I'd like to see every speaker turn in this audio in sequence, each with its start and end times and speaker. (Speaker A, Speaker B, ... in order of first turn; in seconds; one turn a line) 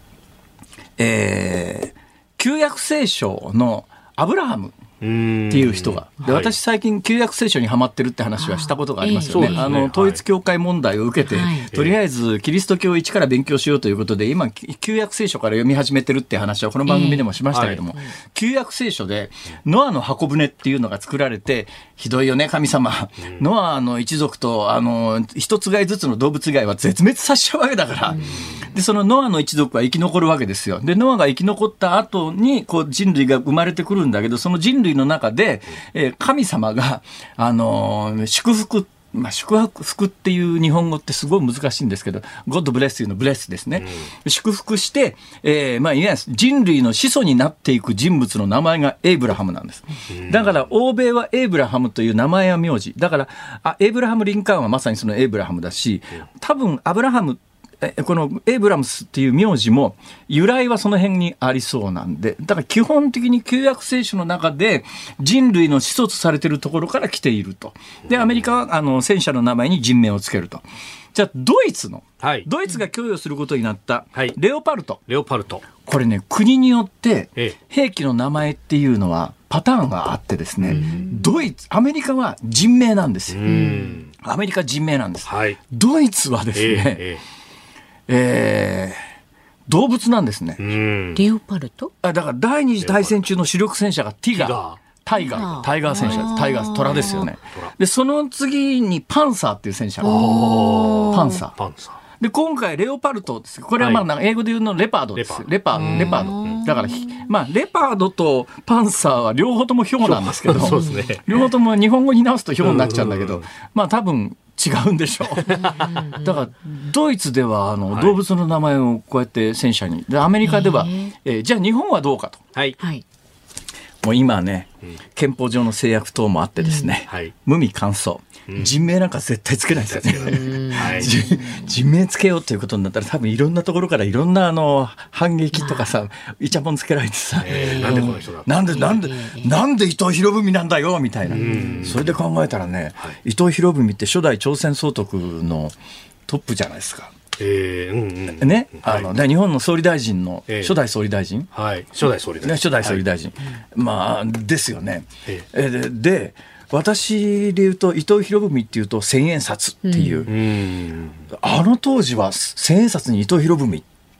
Speaker A: 1.0-4.8
Speaker B: 5.0-6.5
Speaker A: 5.5-75.0
Speaker C: 8.4-9.7
Speaker B: 9.2-10.2
Speaker C: 11.2-11.7
Speaker C: 16.9-17.3
Speaker B: 17.5-17.8
Speaker C: 28.1-28.4
Speaker B: 28.2-28.6
Speaker B: 43.8-44.0
Speaker B: 50.1-50.5
Speaker B: 72.2-72.5
Speaker B: 75.1-75.7
Speaker A: 75.8-83.5
Speaker B: 80.6-81.0
Speaker C: 80.7-81.2
Speaker B: 83.3-84.1
Speaker C: 83.4-84.0
Speaker A: 84.1-87.0
Speaker B: 85.2-85.6
Speaker B: 86.5-87.2
Speaker A: 88.1-89.0
Speaker A: 89.7-90.7
Speaker B: 90.6-91.2
Speaker C: 91.1-91.9
Speaker A: 92.0-100.2
Speaker B: 92.8-93.3
Speaker B: 94.3-97.7
Speaker C: 95.2-97.3
Speaker B: 100.0-102.0
Speaker C: 100.0-101.4
Speaker A: 101.1-101.5
Speaker A: 102.2-122.4
Speaker B: 103.8-104.1
Speaker B: 105.2-106.6
Speaker C: 105.7-107.2
Speaker B: 110.0-111.4
Speaker C: 110.6-111.2
Speaker B: 112.6-113.4
Speaker B: 115.5-116.0
Speaker C: 115.6-116.3
Speaker B: 117.9-118.2
Speaker C: 120.4-121.1
Speaker C: 122.8-123.0
Speaker A: 124.0-145.7
Speaker C: 126.6-126.9
Speaker B: 128.5-128.7
Speaker B: 129.9-131.1
Speaker C: 130.2-131.6
Speaker C: 135.6-135.9
Speaker B: 137.4-138.5
Speaker C: 137.5-138.1
Speaker C: 138.7-139.5
Speaker C: 141.3-141.8
Speaker B: 141.3-142.1
Speaker A: 146.3-147.1
Speaker B: 147.4-149.2
Speaker A: 148.3-151.5
Speaker B: 150.5-150.7
Speaker B: 151.5-153.0
Speaker A: 152.4-160.3
Speaker C: 159.8-160.3
Speaker B: 160.3-161.2
Speaker A: 161.3-163.8